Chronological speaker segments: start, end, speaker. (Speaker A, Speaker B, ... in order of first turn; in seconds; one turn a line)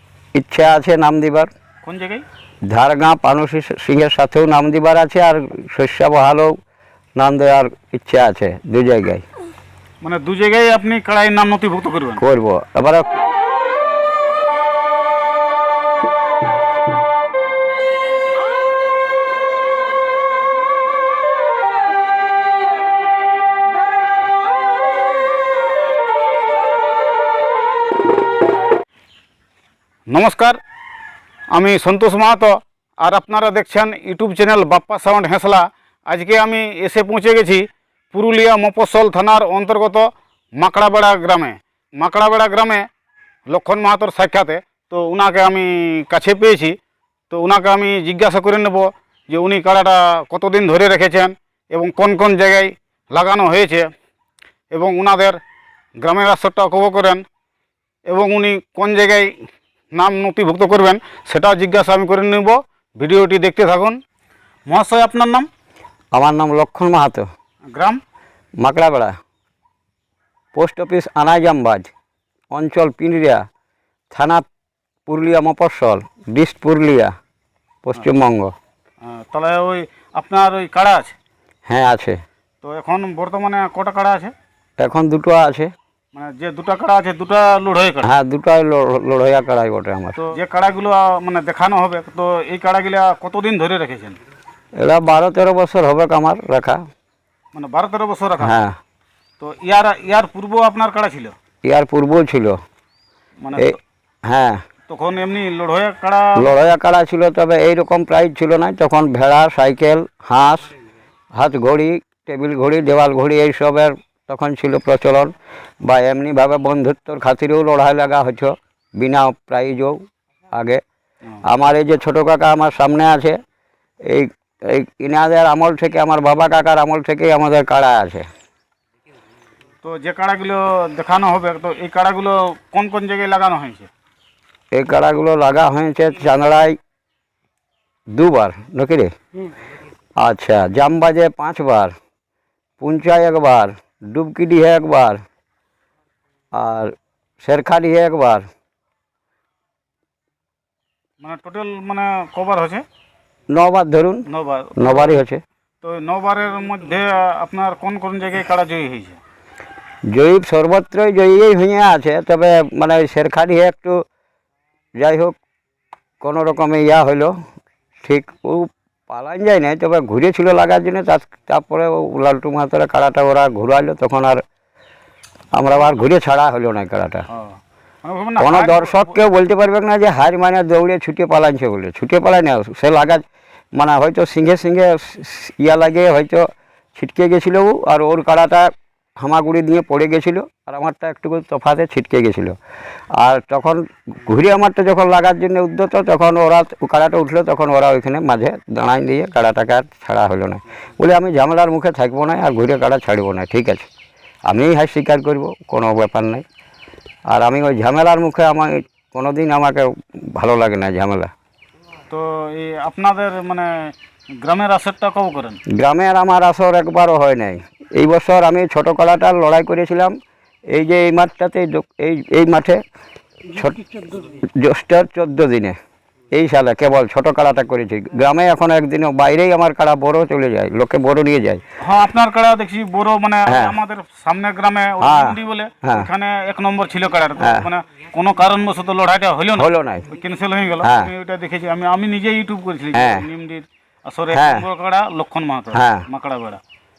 Speaker A: 0.3-1.5
Speaker B: 1.8-2.2
Speaker A: 2.7-6.5
Speaker A: 7.2-9.2
Speaker B: 10.0-12.2
Speaker A: 12.2-13.1
Speaker B: 30.1-30.6
Speaker B: 31.5-42.9
Speaker B: 43.5-46.8
Speaker B: 47.3-53.9
Speaker B: 54.7-55.4
Speaker B: 56.0-57.2
Speaker B: 58.1-64.0
Speaker B: 64.7-65.5
Speaker A: 66.1-67.3
Speaker B: 67.7-68.0
Speaker A: 68.6-69.1
Speaker A: 70.5-71.9
Speaker A: 72.5-73.4
Speaker A: 74.1-74.5
Speaker A: 75.1-77.1
Speaker A: 77.8-78.5
Speaker B: 79.0-81.1
Speaker A: 81.7-82.2
Speaker B: 82.6-84.3
Speaker A: 84.8-85.7
Speaker B: 86.1-88.1
Speaker A: 88.0-90.2
Speaker B: 90.2-94.2
Speaker A: 94.8-96.8
Speaker B: 97.5-98.6
Speaker A: 98.4-98.8
Speaker B: 99.4-101.3
Speaker A: 101.6-102.6
Speaker B: 103.4-103.8
Speaker A: 103.6-104.6
Speaker B: 104.9-106.5
Speaker A: 106.4-110.7
Speaker A: 111.3-115.3
Speaker A: 115.8-120.0
Speaker A: 120.5-120.8
Speaker A: 121.4-123.4
Speaker A: 124.1-128.2
Speaker B: 129.8-133.9
Speaker A: 134.7-136.8
Speaker A: 138.1-139.1
Speaker A: 140.2-141.9
Speaker A: 142.8-145.2
Speaker A: 146.5-148.4
Speaker B: 151.2-152.8
Speaker A: 153.5-154.2
Speaker B: 154.3-155.2
Speaker A: 154.8-155.4
Speaker B: 155.8-159.2
Speaker A: 160.1-164.0
Speaker A: 165.0-165.4
Speaker A: 166.2-167.3
Speaker A: 168.0-174.4
Speaker A: 175.5-177.2
Speaker B: 177.3-179.2
Speaker A: 178.4-192.6
Speaker A: 193.2-203.9
Speaker A: 204.5-206.4
Speaker A: 207.3-211.3
Speaker B: 212.1-215.6
Speaker A: 215.7-220.1
Speaker A: 220.7-222.8
Speaker A: 223.5-225.8
Speaker A: 226.3-231.6
Speaker B: 231.8-246.6
Speaker A: 233.5-233.7
Speaker A: 235.0-236.1
Speaker A: 237.4-237.7
Speaker A: 239.6-240.1
Speaker A: 240.8-241.1
Speaker A: 242.9-243.2
Speaker A: 244.3-244.6
Speaker A: 245.7-246.1